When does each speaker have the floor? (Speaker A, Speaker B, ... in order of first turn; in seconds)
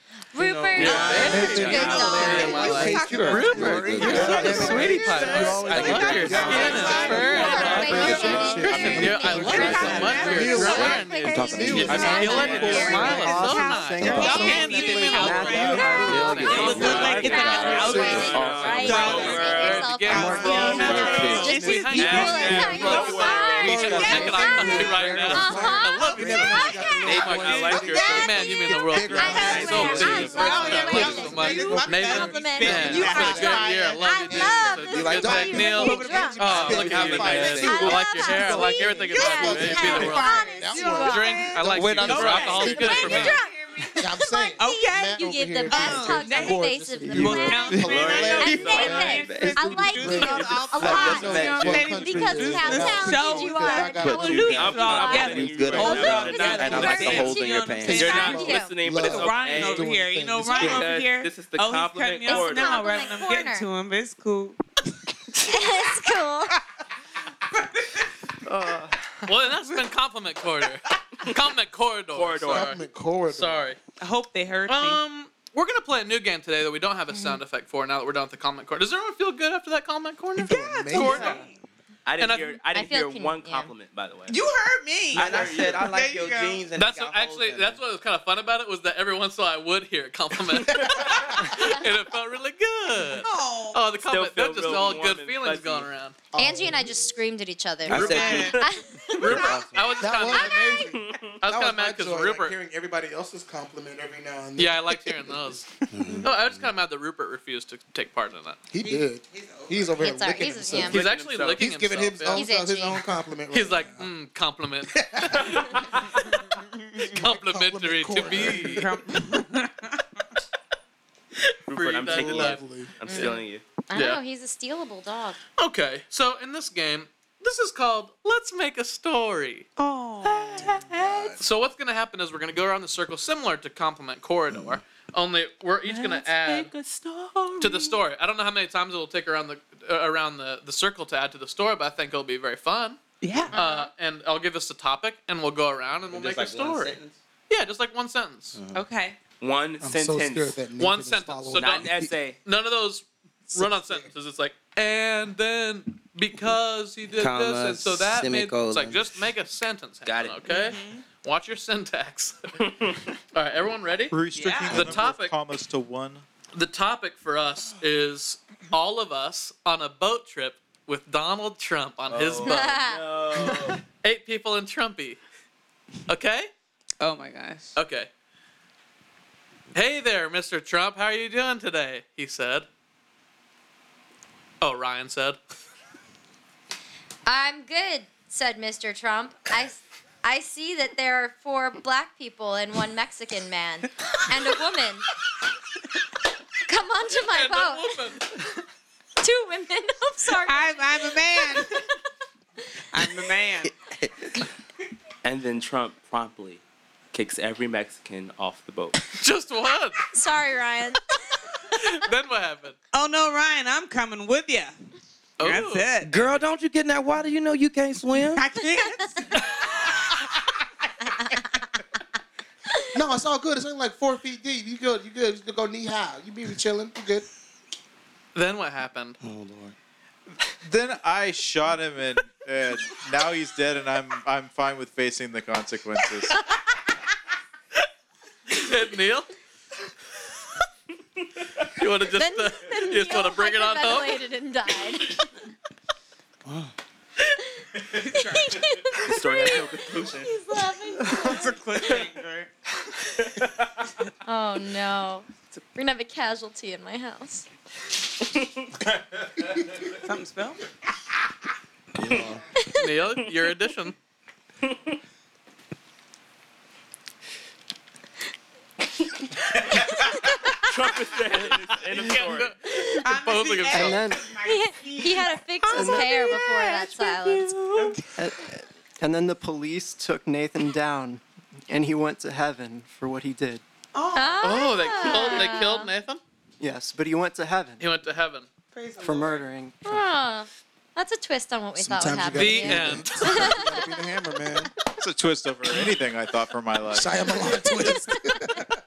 Speaker A: 0.3-2.9, 6.5-13.3, 16.5-27.2, 27.7-41.5, 42.5-57.3, 57.9-58.7, 62.2-63.7, 65.4-66.5, 82.7-83.7, 96.3-98.9, 110.0-111.0, 112.3-113.0, 123.0-125.4, 143.5-143.9, 172.4-173.0, 187.2-195.1, 196.7-197.9, 199.2-201.8, 210.1-211.5, 242.1-245.2, 248.1-251.6, 254.2-257.5, 270.1-270.6, 272.7-273.0, 274.4-277.5, 284.1-285.9, 289.8-293.8, 297.4-298.4
Speaker B: 0.4-13.4, 14.0-19.4, 20.1-43.4, 44.0-54.8, 57.8-60.8, 72.4-73.7, 80.3-81.5, 96.3-97.0, 99.2-105.6, 108.7-114.1, 114.9-116.0, 117.0-118.9, 122.0-123.0, 130.6-131.4, 149.8-152.1, 153.5-154.1, 222.9-227.2, 291.8-294.7, 296.9-298.7
Speaker C: 0.8-4.9, 5.9-8.4, 9.5-10.8, 12.0-24.9, 29.1-34.0, 35.9-36.7, 39.2-64.6, 74.0-75.0, 80.9-81.6, 84.3-86.7, 93.0-93.8, 98.0-98.7, 99.2-100.0, 108.8-110.0, 118.3-120.0, 129.8-130.9, 143.2-143.6, 148.7-149.2, 160.5-161.0, 164.3-164.9, 177.0-177.8, 200.3-201.8, 202.9-203.7, 212.9-214.7, 215.4-216.2, 218.3-219.5, 247.9-248.6, 251.0-252.5, 260.0-260.6, 273.0-278.0, 283.9-285.6, 288.7-289.4
Speaker D: 0.8-43.4, 69.2-73.8, 74.7-81.4, 82.2-82.6, 86.7-96.2, 97.9-98.6, 99.2-100.8, 101.4-102.5, 104.6-105.7, 106.2-108.6, 110.9-112.4, 113.5-116.5, 117.0-118.9, 121.7-123.4, 123.9-124.2, 125.6-129.7, 131.4-136.7, 137.6-143.0, 143.5-147.0, 147.5-148.6, 150.8-162.6, 163.3-164.2, 164.7-165.3, 166.5-172.8, 174.0-175.2, 176.1-176.5, 177.8-178.1, 179.7-182.7, 184.6-185.4, 197.2-198.2, 209.1-210.1, 211.7-212.8, 215.4-215.9, 228.3-229.2, 238.5-239.3, 241.7-244.2, 262.8-263.9, 271.6-274.1, 284.4-286.2, 287.8-288.5, 292.3-293.6
Speaker E: 0.8-2.4, 17.6-21.4, 21.9-24.8, 27.0-28.4, 29.1-30.4, 47.7-48.9, 54.4-60.0, 60.5-62.8, 72.1-72.8, 82.0-84.4, 85.1-85.9, 94.0-95.9, 100.9-101.4, 110.9-111.7, 121.7-123.6, 135.8-138.0, 149.4-150.6, 151.5-152.4, 160.1-160.5, 162.6-163.0, 172.1-173.8, 205.2-209.0, 248.9-250.3, 253.2-253.7, 264.6-265.0, 270.6-272.5, 277.3-278.0
Speaker F: 0.9-13.0, 14.0-14.6, 15.2-19.4, 20.1-21.6, 36.5-38.0, 41.7-42.7, 47.0-49.8, 50.8-51.8, 54.0-58.3, 85.1-87.8, 97.9-98.6, 99.2-99.9, 105.9-106.6, 134.5-134.8, 146.1-147.2, 148.5-148.8, 157.1-159.1, 216.0-218.4, 229.2-229.7, 246.4-246.7, 262.0-262.4
Speaker G: 4.1-4.4, 164.1-166.2, 230.6-236.3, 295.0-297.3
Speaker H: 5.9-6.5, 7.3-7.7, 8.2-8.5, 11.7-17.4, 68.5-69.0, 273.7-274.3, 275.7-276.1, 278.1-283.6, 286.6-287.8, 289.0-290.1